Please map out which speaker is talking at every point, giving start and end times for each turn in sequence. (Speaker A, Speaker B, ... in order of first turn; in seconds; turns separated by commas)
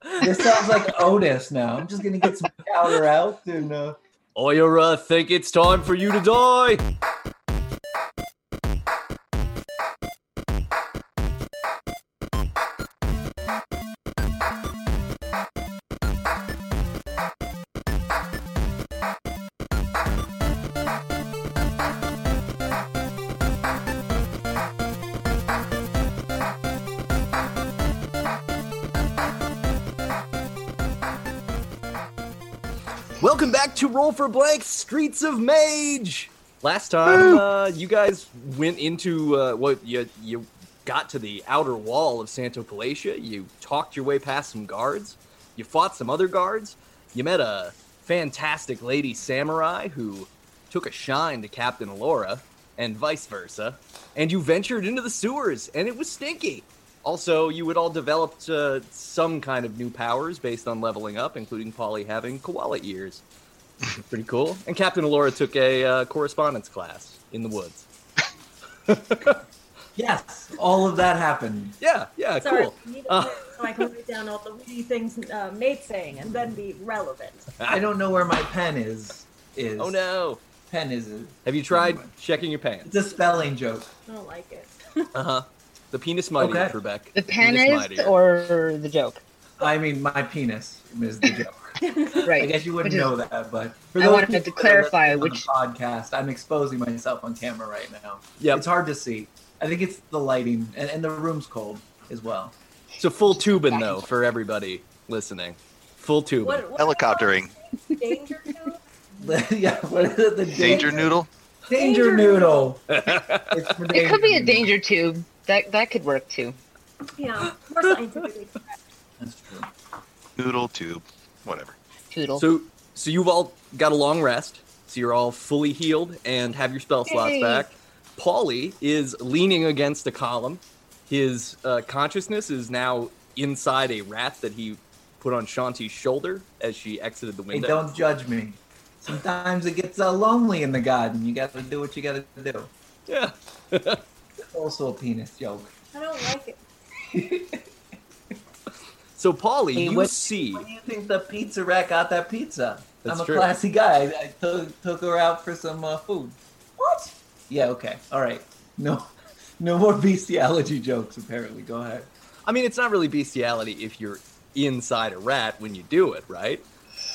Speaker A: 0.2-4.0, Speaker B: 4.3-6.8, Speaker B: 33.2-63.2, Speaker B: 64.0-67.9, Speaker B: 68.9-69.4, Speaker A: 70.0-71.7, Speaker B: 71.8-73.8, Speaker C: 72.4-77.5, Speaker A: 77.7-80.0, Speaker B: 79.8-80.4, Speaker A: 80.7-82.1, Speaker B: 81.5-82.9, Speaker A: 82.8-83.9, Speaker C: 84.1-84.7, Speaker B: 85.1-88.2, Speaker A: 86.4-86.8, Speaker D: 87.1-89.2, Speaker A: 89.6-91.7, Speaker C: 91.8-92.2, Speaker D: 92.2-93.1, Speaker A: 92.3-102.5, Speaker D: 94.0-95.5, Speaker B: 98.4-98.6, Speaker B: 103.0-106.6, Speaker D: 103.3-104.0, Speaker C: 106.4-108.8, Speaker E: 106.8-107.5, Speaker A: 109.2-111.1, Speaker E: 110.5-111.3, Speaker A: 111.7-114.7, Speaker C: 111.7-112.7, Speaker B: 112.9-113.6, Speaker D: 113.9-116.6, Speaker C: 117.2-118.7, Speaker A: 119.2-119.7, Speaker E: 120.4-121.7, Speaker D: 122.1-122.5, Speaker B: 122.3-137.8, Speaker D: 127.0-127.7, Speaker A: 137.5-142.7, Speaker B: 143.1-144.0, Speaker A: 144.5-145.7, Speaker C: 145.9-146.6, Speaker A: 147.1-147.6, Speaker B: 149.2-150.7, Speaker A: 149.7-156.4, Speaker B: 153.0-153.5, Speaker C: 156.8-157.1, Speaker A: 157.5-162.1, Speaker B: 162.4-166.6